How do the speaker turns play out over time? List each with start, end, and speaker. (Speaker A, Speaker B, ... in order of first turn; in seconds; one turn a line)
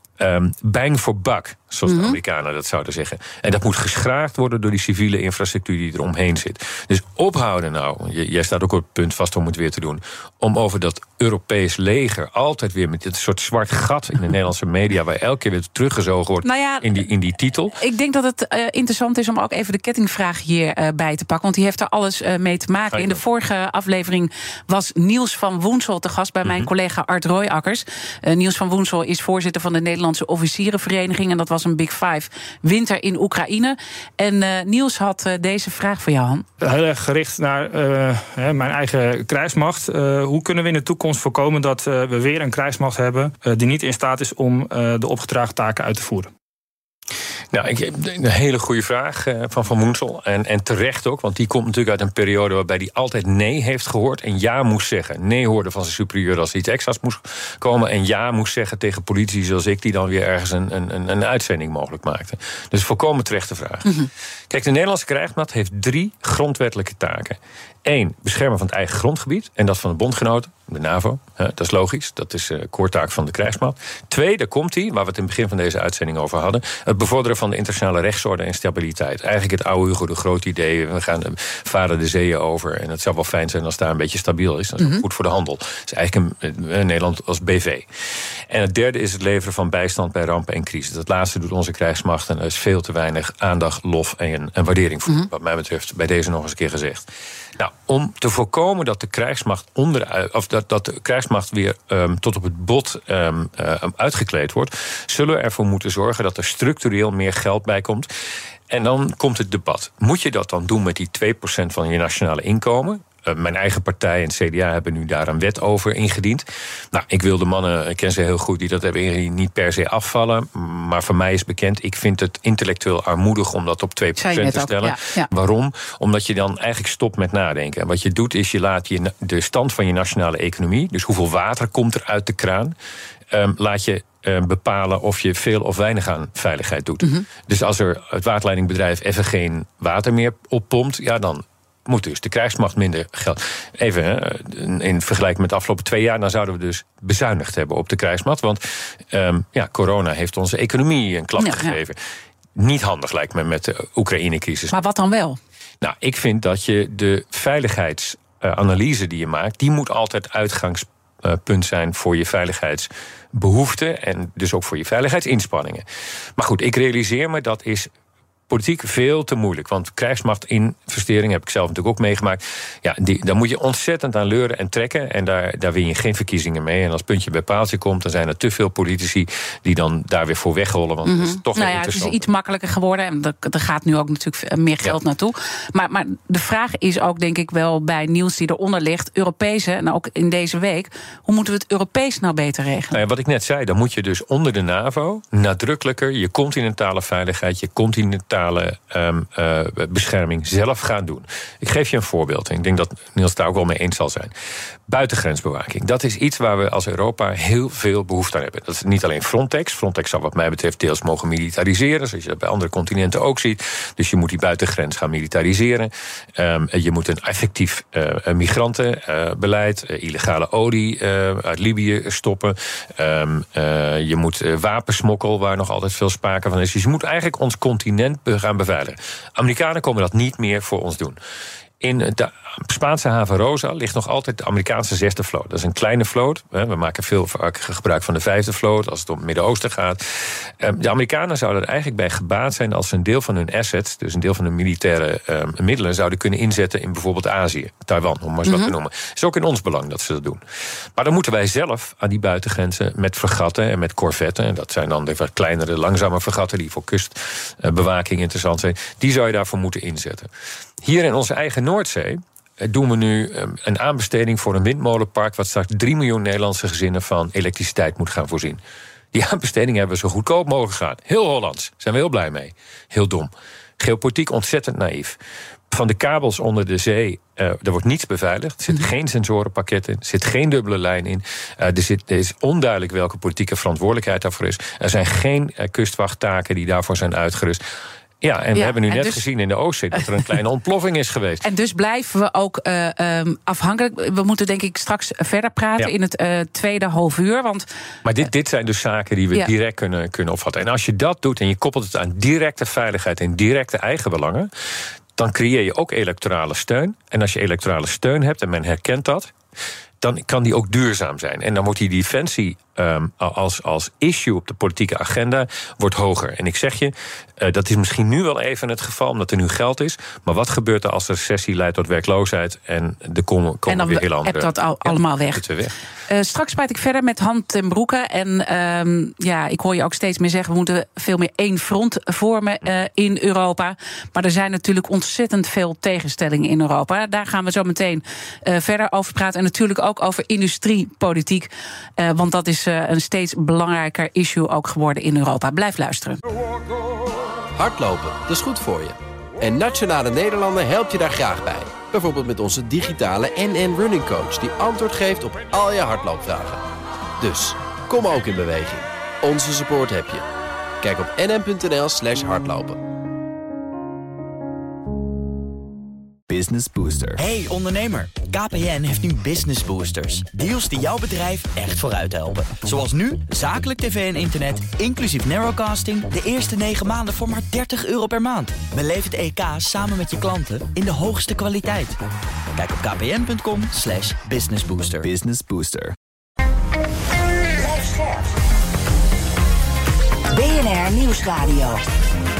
Speaker A: 0.2-17.8
Speaker B: 1.9-2.1
Speaker B: 16.4-16.9
Speaker B: 17.8-36.5
Speaker A: 22.9-23.2
Speaker A: 26.4-26.7
Speaker C: 36.6-46.3
Speaker A: 47.5-87.9
Speaker A: 88.5-108.1
Speaker A: 108.7-132.8
Speaker B: 124.2-125.3
Speaker A: 133.3-152.0
Speaker B: 151.4-151.8
Speaker A: 152.6-154.8
Speaker B: 154.7-155.4
Speaker A: 155.8-165.8
Speaker A: 166.4-167.9
Speaker A: 168.5-182.3
Speaker B: 181.1-193.0
Speaker A: 192.9-204.3
Speaker A: 204.9-231.2
Speaker A: 231.8-250.4
Speaker A: 250.9-268.6
Speaker A: 269.1-275.2
Speaker A: 275.7-287.6
Speaker A: 288.2-291.4
Speaker B: 288.6-289.2
Speaker B: 291.4-297.7
Speaker A: 298.1-304.5
Speaker A: 305.2-309.3
Speaker A: 310.0-325.7
Speaker B: 323.7-325.4
Speaker B: 326.1-346.2
Speaker D: 347.6-356.6
Speaker D: 357.2-360.2
Speaker D: 360.8-362.8
Speaker E: 366.3-367.2
Speaker F: 367.2-382.0
Speaker F: 382.6-385.1
Speaker E: 385.0-386.0
Speaker G: 387.5-388.3
Speaker G: 390.3-391.8